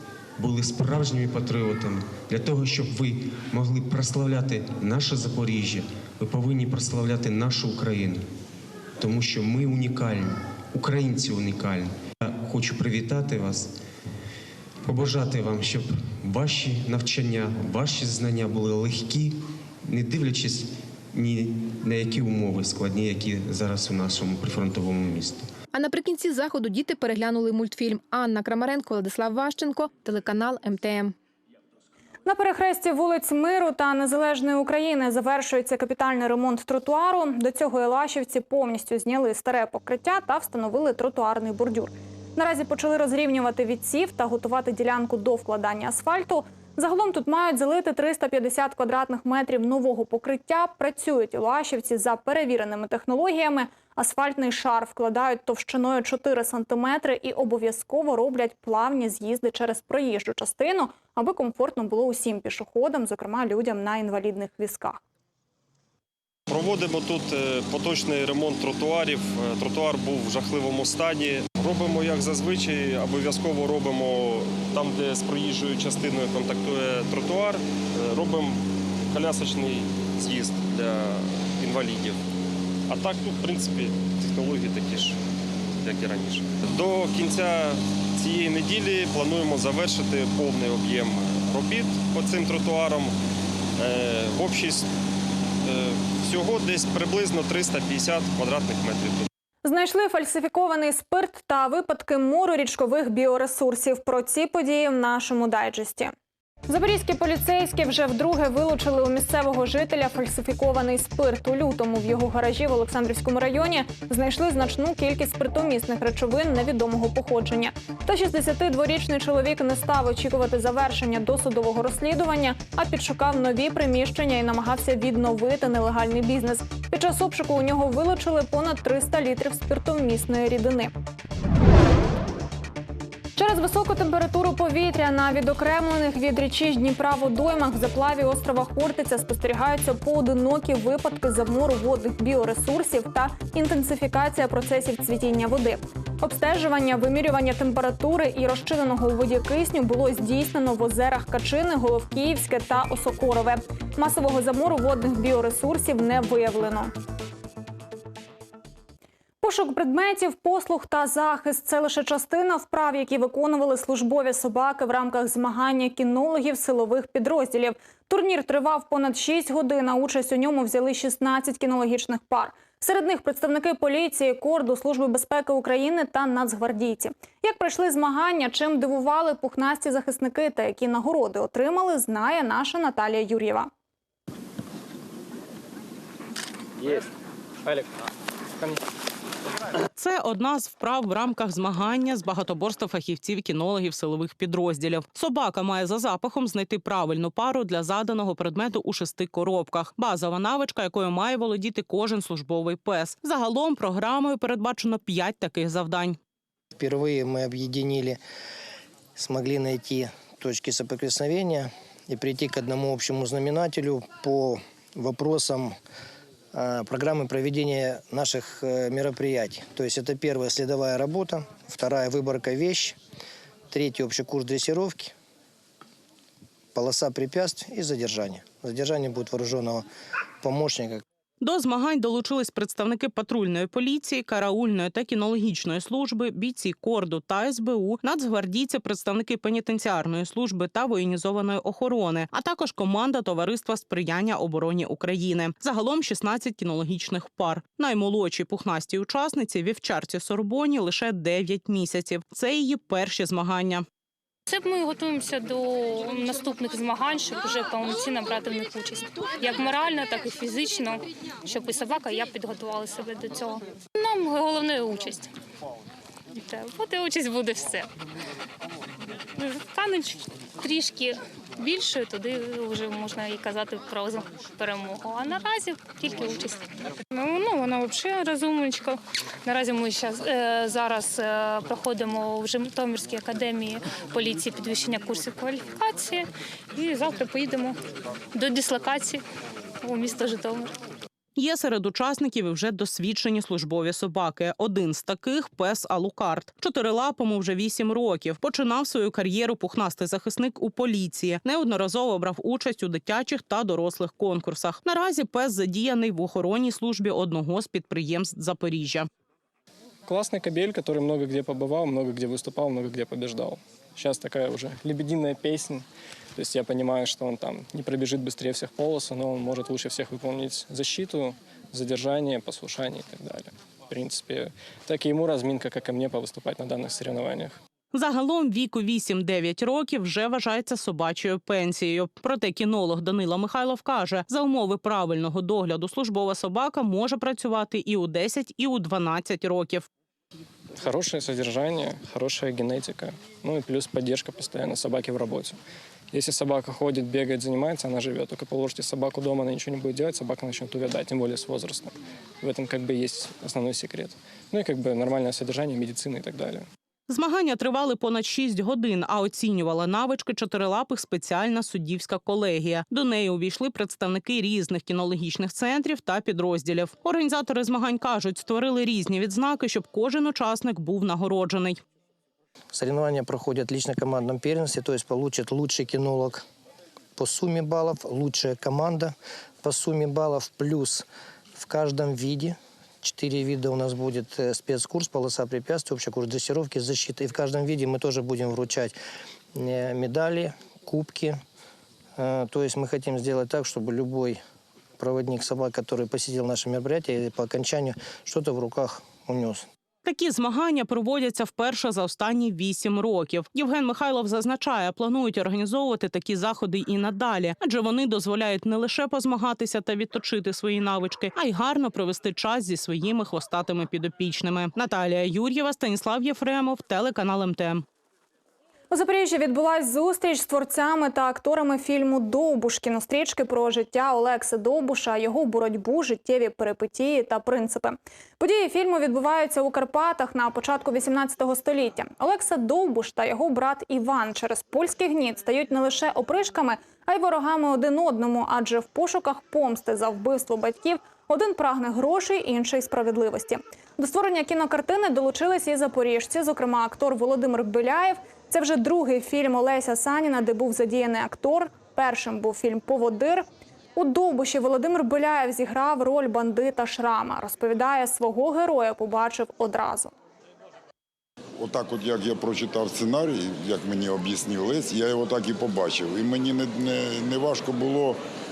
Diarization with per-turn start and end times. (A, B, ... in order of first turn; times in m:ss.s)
0:00.4-0:08.2 A
0:09.0-0:13.7 A
0:14.8-0:25.5 A
0:25.7-0:31.1 B
0:32.2-1:05.0 C
1:06.5-1:22.2 D
1:22.9-1:25.2 D
1:25.8-1:33.1 D
1:33.8-1:34.9 D
1:35.6-1:39.3 D
1:39.6-1:46.1 C
1:46.7-2:10.9 C
2:13.4-2:36.9 C
2:39.4-3:03.7 C
3:06.8-3:07.1 E
3:10.0-3:26.2 F
3:26.7-3:28.2 G
3:29.2-3:35.8 G
3:36.5-3:43.0 G
3:43.7-3:45.1 G
3:46.7-3:49.8 G
3:50.4-3:51.0 G
3:51.4-4:13.8 F
4:14.5-4:25.3 H
4:26.3-4:27.9 H
4:29.4-4:47.8 H
4:48.3-4:49.2 H
4:49.8-4:50.7 H
4:51.4-5:09.1 F
5:10.1-5:15.8 E
5:16.4-5:27.6 E
5:27.9-5:39.8 F
5:40.8-5:45.6 E
5:46.1-5:56.6 E
5:57.1-6:11.8 F
6:12.7-6:16.4 G
6:17.2-6:29.0 G
6:29.5-6:31.4 G
6:32.2-6:34.4 G
6:35.0-6:39.6 G
6:40.0-6:57.8 F
6:58.9-7:40.1 C
7:41.6-7:48.2 I